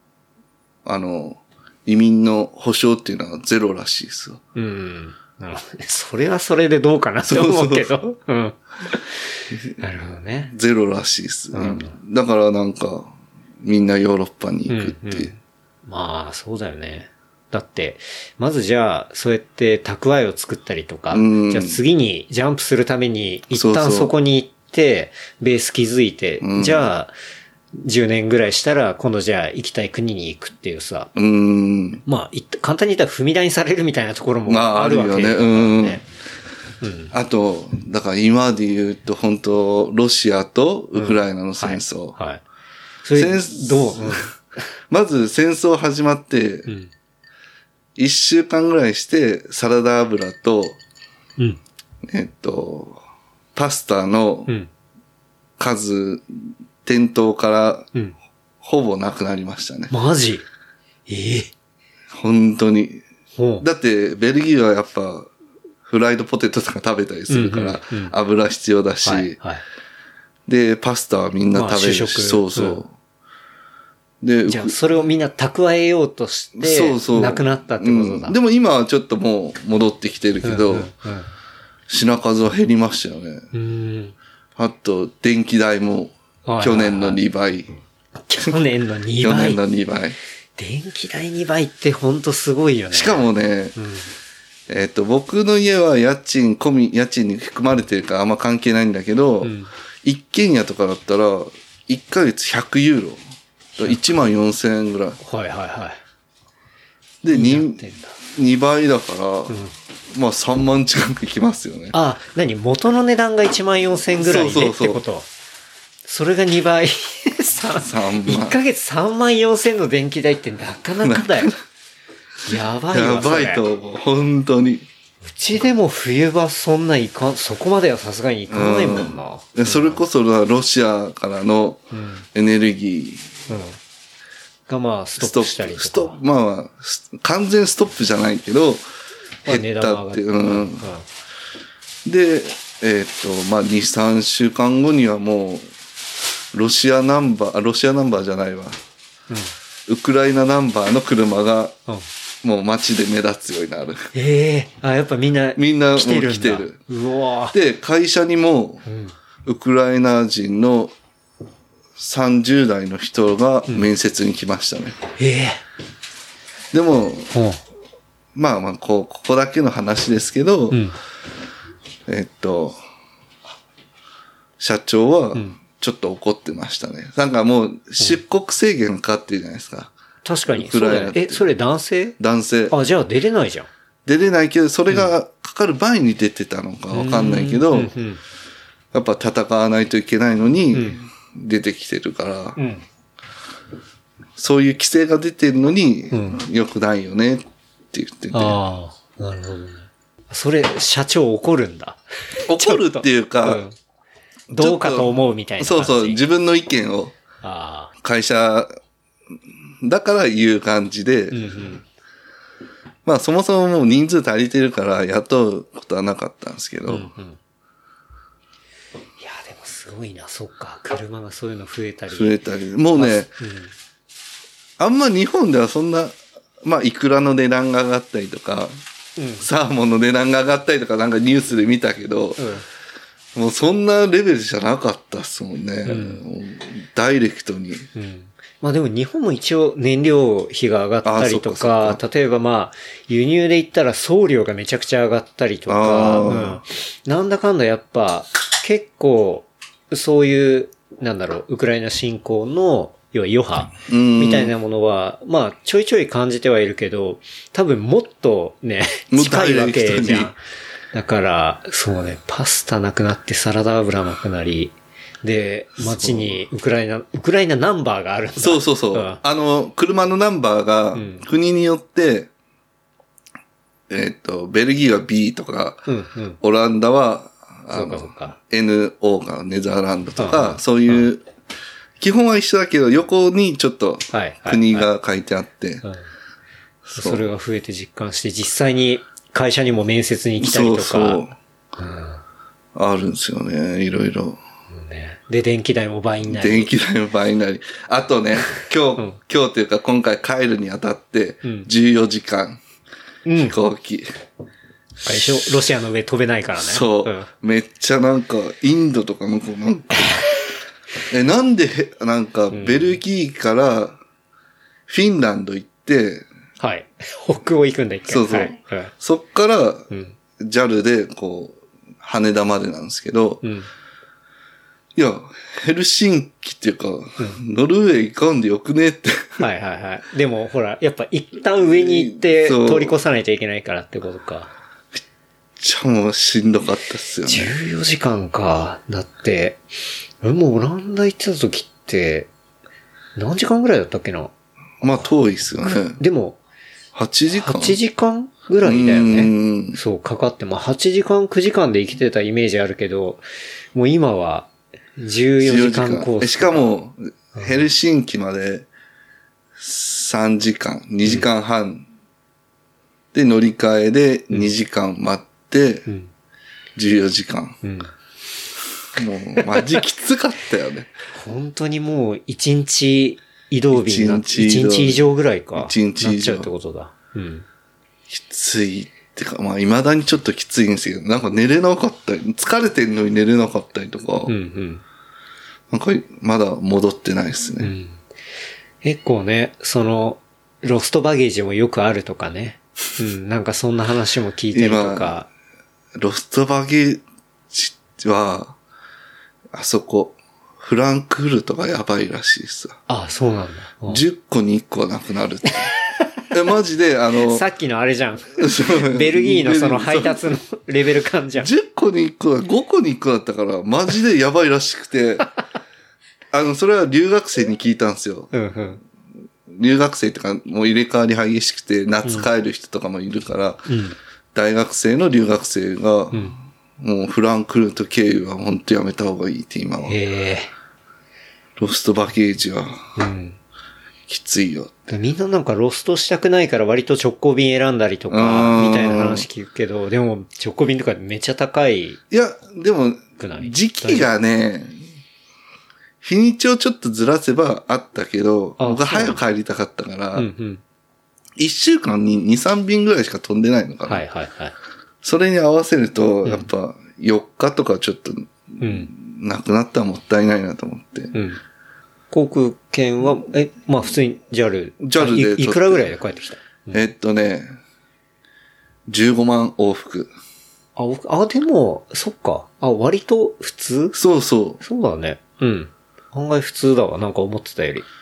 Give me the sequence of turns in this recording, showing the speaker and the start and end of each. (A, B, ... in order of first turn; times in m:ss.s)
0:00.8-0:04.4 A
0:04.5-0:10.5 B
0:07.2-0:08.1 A
0:09.5-0:09.8 A
0:10.5-0:15.3 A
0:11.5-0:11.9 B
0:14.7-0:27.1 B
0:21.1-0:21.8 A
0:23.5-0:24.1 A
0:26.4-0:26.9 A
0:27.7-0:31.1 B
0:31.1-0:32.0 A
0:32.0-0:36.0 B
0:34.5-0:36.0 A
0:36.8-0:37.1 B
0:37.1-0:42.2 A
0:40.9-0:42.4 B
0:43.0-0:44.3 B
0:43.1-0:44.3 A
0:44.9-0:46.7 A
0:48.0-0:50.8 A
0:52.0-0:53.0 A
0:53.5-0:54.5 A
0:55.6-0:57.9 A
0:58.6-0:59.9 A
0:59.9-1:00.4 B
1:01.1-1:01.5 B
1:02.1-1:03.0 A
1:03.4-1:03.6 B
1:03.6-1:05.3 A
1:05.8-1:09.4 A
1:07.3-1:08.1 B
1:09.0-1:09.6 B
1:10.5-1:12.9 A
1:11.5-1:12.8 B
1:14.2-1:14.8 A
1:14.5-1:18.4 B
1:16.6-1:20.9 A
1:20.4-1:21.3 B
1:21.9-1:23.5 A
1:23.5-1:24.1 B
1:24.6-1:27.7 A
1:26.4-1:27.2 B
1:28.2-1:29.6 B
1:29.2-1:30.2 A
1:30.6-1:33.2 B
1:32.9-1:33.8 A
1:33.8-1:34.1 B
1:34.7-1:43.2 A
1:39.4-1:39.7 B
1:43.8-1:45.2 A
1:45.2-1:46.0 B
1:47.2-1:49.6 A
1:47.3-1:48.1 B
1:50.1-1:51.9 A
1:51.9-1:55.3 B
1:54.2-1:55.0 A
1:56.0-2:01.5 B
1:57.8-1:58.6 A
2:01.0-2:01.5 A
2:02.4-2:03.6 B
2:02.9-2:04.8 A
2:05.2-2:10.0 B
2:08.5-2:13.3 A
2:11.9-2:12.2 B
2:13.5-2:13.8 B
2:14.7-2:16.2 B
2:15.2-2:18.8 A
2:19.4-2:20.9 A
2:19.4-2:21.0 B
2:22.0-2:25.7 A
2:26.5-2:28.8 A
2:29.9-2:31.8 A
2:32.4-2:34.1 A
2:34.1-2:37.5 B
2:35.6-2:36.8 A
2:37.5-2:38.8 A
2:38.8-2:39.1 B
2:39.4-2:40.9 A
2:42.0-2:45.0 A
2:45.2-2:45.6 B
2:46.7-2:47.3 A
2:47.3-2:47.6 B
2:48.3-2:50.8 A
2:50.7-2:51.0 B
2:52.1-2:52.8 A
2:54.6-2:59.9 A
3:00.2-3:02.2 B
3:00.5-3:01.5 A
3:02.2-3:02.7 A
3:02.7-3:03.7 B
3:04.0-3:07.9 A
3:06.9-3:08.2 B
3:08.9-3:12.6 A
3:10.7-3:11.0 B
3:12.6-3:12.8 B
3:14.4-3:18.6 A
3:16.1-3:16.4 B
3:18.3-3:23.7 B
3:22.5-3:23.6 A
3:24.5-3:26.2 B
3:24.5-3:27.2 A
3:27.4-3:27.9 B
3:28.0-3:28.7 A
3:29.8-3:31.6 A
3:31.3-3:31.8 B
3:33.0-3:37.1 A
3:36.9-3:37.4 B
3:39.2-3:42.4 B
3:42.1-3:43.3 A
3:42.9-3:43.7 B
3:44.8-3:48.7 A
3:49.2-3:49.5 B
3:49.4-3:52.4 A
3:52.4-3:52.6 B
3:53.3-3:57.9 A
3:55.8-3:56.2 B
3:57.9-4:20.4 B
4:01.0-4:02.0 A
4:05.7-4:06.6 A
4:13.9-4:14.5 A
4:19.1-4:20.3 A
4:20.9-4:29.2 B
4:25.8-4:26.4 A
4:28.4-4:32.3 A
4:30.9-4:31.2 B
4:33.9-4:35.8 A
4:35.9-4:36.4 B
4:36.4-4:41.2 A
4:37.7-4:38.4 B
4:40.2-4:41.1 B
4:42.0-4:45.8 A
4:44.1-4:44.9 B
4:46.8-4:47.2 A
4:46.9-4:51.2 B
4:50.4-4:51.3 A
4:51.8-4:52.2 B
4:52.7-4:54.4 A
4:54.7-4:56.7 B
4:56.2-5:02.6 A
5:01.4-5:01.7 B
5:03.2-5:03.6 B
5:03.4-5:04.1 A
5:05.0-5:07.3 B
5:06.6-5:10.2 A
5:10.0-5:10.5 B
5:11.1-5:14.0 A
5:12.5-5:13.0 B
5:14.9-5:16.3 A
5:16.6-5:18.9 B
5:18.1-5:23.4 A
5:19.9-5:20.2 B
5:23.4-5:23.7 B
5:25.0-5:29.4 A
5:29.4-5:34.5 B
5:31.6-5:33.0 A
5:35.6-5:37.5 A
5:37.2-5:39.6 B
5:40.2-5:42.3 B
5:43.2-5:44.3 B
5:44.8-5:46.0 A
5:45.6-5:46.4 B
5:46.9-5:47.8 A
5:47.3-5:53.2 B
5:48.6-5:49.8 A
5:53.7-5:56.7 B
5:55.4-5:58.7 A
5:59.6-6:01.8 A
6:03.1-6:05.9 A
6:06.8-6:07.6 A
6:07.6-6:07.9 B
6:08.9-6:10.9 A
6:09.5-6:09.8 B
6:11.1-6:17.4 B
6:13.7-6:16.5 A
6:18.1-6:24.3 A
6:24.2-6:24.8 B
6:25.7-6:27.7 A
6:27.6-6:28.0 B
6:28.8-6:35.3 B
6:34.5-6:35.2 A
6:36.0-6:38.6 A
6:39.5-6:42.8 A
6:42.9-6:44.0 B
6:43.9-6:45.7 A
6:46.3-6:47.4 A
6:47.2-6:51.5 B
6:48.4-6:50.2 A
6:51.4-6:55.3 A
6:56.3-6:58.3 A
6:58.3-6:58.8 B
6:59.5-7:03.7 A
7:03.7-7:04.0 B
7:04.3-7:10.0 A
7:09.9-7:10.5 B
7:11.6-7:12.8 A
7:13.0-7:13.4 B
7:14.1-7:14.9 A
7:14.9-7:22.0 B
7:18.1-7:19.3 A
7:22.1-7:24.8 A
7:23.2-7:24.1 B
7:26.0-7:30.3 A
7:28.6-7:29.2 B
7:30.1-7:30.6 B
7:31.4-7:34.0 A
7:33.8-7:34.5 B
7:35.0-7:41.1 A
7:38.6-7:38.9 B
7:41.1-7:41.4 B
7:42.1-7:46.8 B
7:44.8-7:45.9 A
7:46.7-7:47.6 A
7:48.9-7:50.1 A
7:50.8-7:54.0 B
7:53.9-7:54.6 A
7:54.6-7:57.8 B